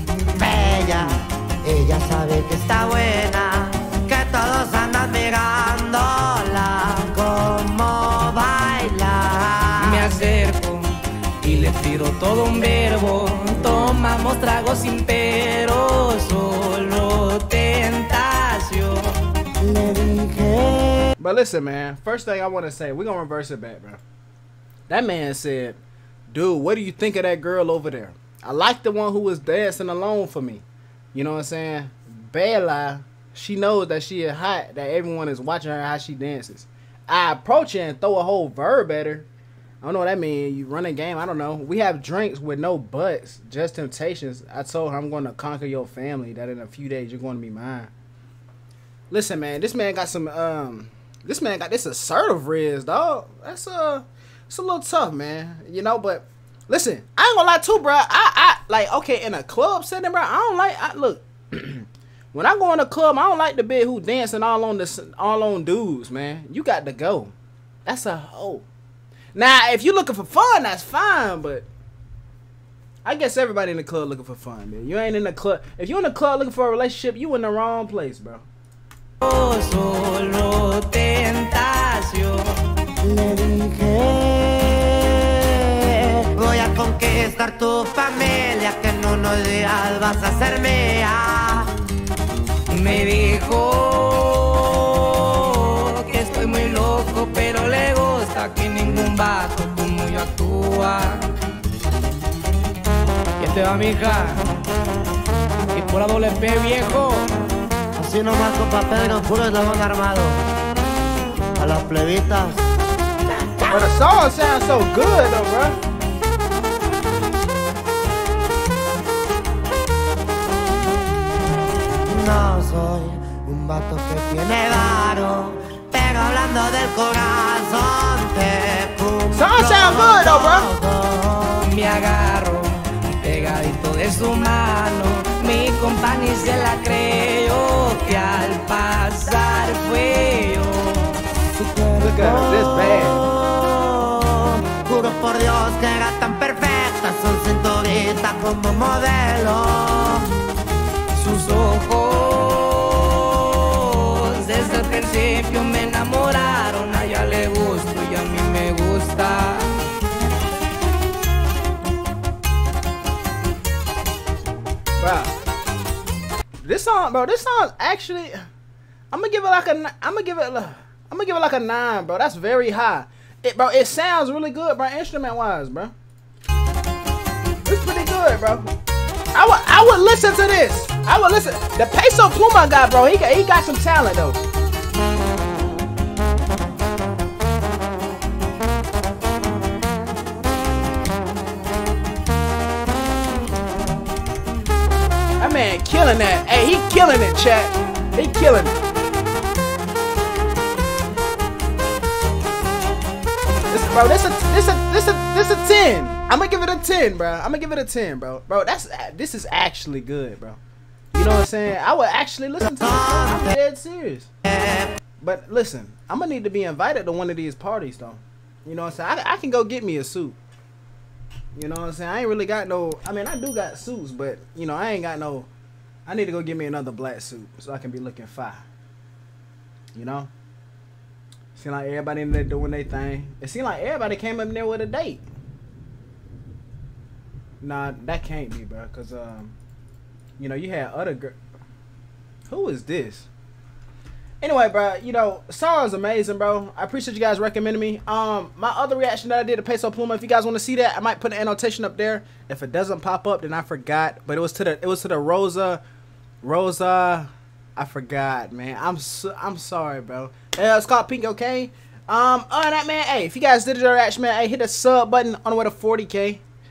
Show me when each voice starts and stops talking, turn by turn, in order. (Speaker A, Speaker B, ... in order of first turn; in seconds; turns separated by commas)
Speaker A: 0.3-10.1, Speaker B: 9.8-19.2, Speaker A: 19.6-21.1, Speaker C: 21.2-24.0, Speaker C: 24.9-39.3, Speaker C: 39.8-47.9, Speaker C: 49.1-67.3, Speaker C: 67.8-68.7, Speaker C: 69.3-71.7, Speaker C: 73.0-78.4, Speaker B: 79.2-82.6, Speaker A: 83.0-91.8, Speaker B: 92.7-101.3, Speaker B: 103.4-104.5, Speaker B: 105.7-107.3, Speaker A: 108.0-110.4, Speaker A: 111.5-112.6, Speaker A: 113.3-113.9, Speaker C: 113.7-115.8, Speaker A: 122.0-131.7, Speaker C: 129.3-130.7, Speaker B: 131.6-141.2, Speaker A: 141.6-150.3, Speaker C: 142.0-143.3, Speaker B: 151.1-159.8, Speaker C: 165.0-165.3, Speaker C: 166.6-168.4, Speaker C: 169.1-175.9, Speaker C: 177.6-178.7, Speaker C: 179.3-184.4, Speaker C: 195.4-198.8, Speaker C: 203.7-210.6, Speaker C: 211.1-214.3, Speaker A: 212.7-213.4, Speaker A: 214.5-215.0, Speaker C: 215.2-220.4, Speaker C: 221.5-225.5, Speaker C: 226.1-228.6, Speaker C: 229.9-230.3, Speaker C: 231.5-235.2, Speaker C: 237.6-239.6, Speaker C: 240.4-241.3, Speaker C: 242.5-243.3, Speaker C: 244.4-255.8, Speaker C: 256.4-266.4